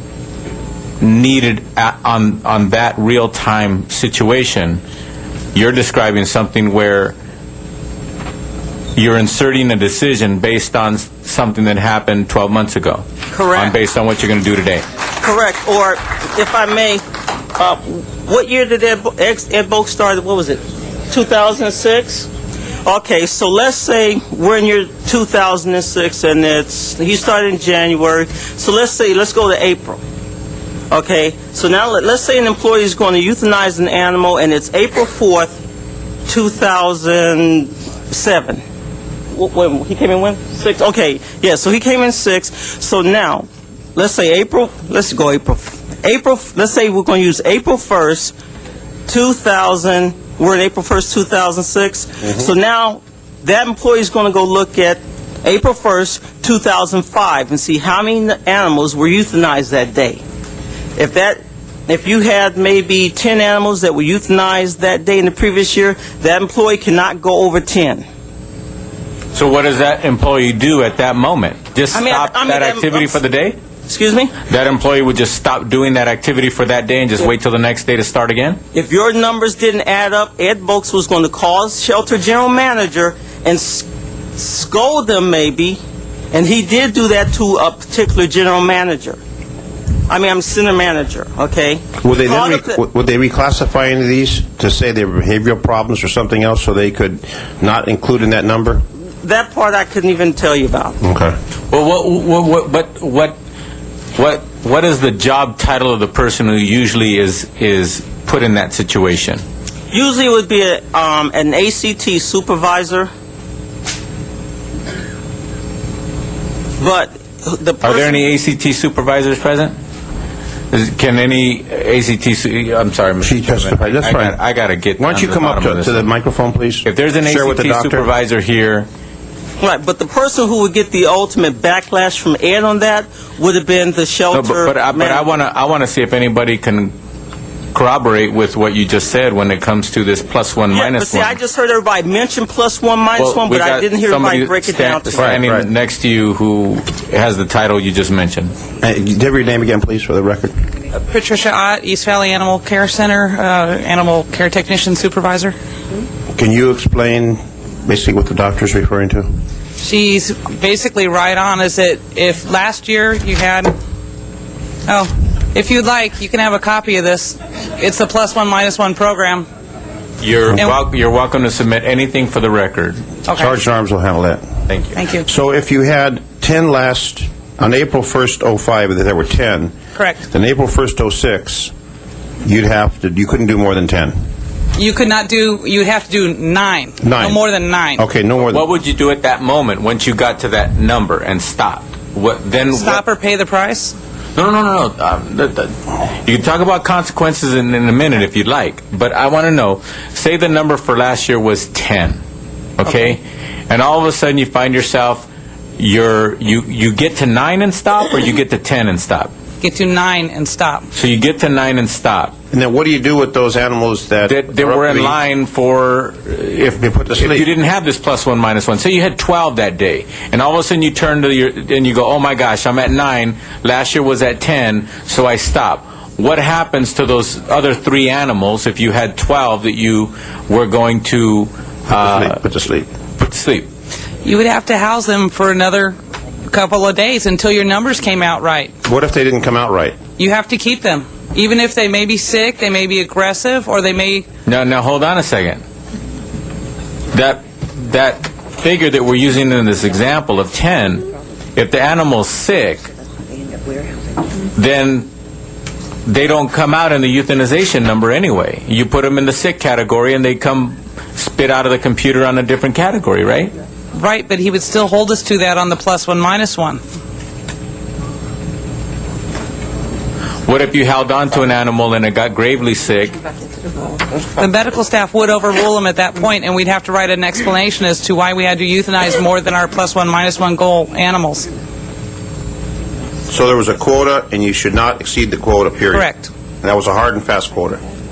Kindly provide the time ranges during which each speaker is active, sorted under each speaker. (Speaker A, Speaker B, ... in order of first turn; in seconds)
Speaker A: 1.0-4.8, 5.5-7.2, 8.9-14.8, 69.3-73.5, 74.5-78.6, 101.7-103.3, 104.2-109.4, 117.8-119.7, 120.7-126.0, 126.8-128.9, 134.3-136.9, 137.7-141.4, 143.2-148.5, 170.2-173.0, 174.7-174.9, 188.4-193.0, 194.3-202.2, 202.8-205.3, 205.8-209.3, 210.9-212.3, 214.2-232.4, 233.2-233.7, 244.4-245.6, 247.1-252.9, 254.5-255.1, 256.1-263.5, 270.5-273.1
Speaker B: 13.3-13.8, 15.2-17.0, 17.6-22.3, 22.8-30.0, 30.9-35.6, 36.3-38.6, 39.3-48.3, 49.1-60.2, 61.0-68.0, 71.9-73.2, 73.9-74.3, 78.7-85.8, 86.3-89.2, 90.1-92.8, 99.2-101.0, 109.9-113.1, 116.8-118.3, 129.6-135.3, 140.7-145.4
Speaker C: 92.0-98.8, 101.0-101.3, 123.2-124.4, 125.0-128.1, 145.2-145.7, 148.8-150.5, 156.3-159.4, 173.3-174.4, 175.2-179.7, 180.3-181.7, 182.4-184.1, 187.0-187.4, 188.0-188.6, 212.5-215.2, 216.8-217.5, 231.9-232.9, 238.8-240.0, 283.3-286.1, 286.6-287.8
Speaker D: 150.9-155.6, 159.8-163.8, 164.8-169.5, 173.2-173.5, 174.9-175.2, 179.9-180.2, 184.7-188.0, 192.7-193.9, 209.6-210.9, 234.2-238.7, 240.2-244.3, 263.9-266.8, 274.3-281.5, 285.9-286.3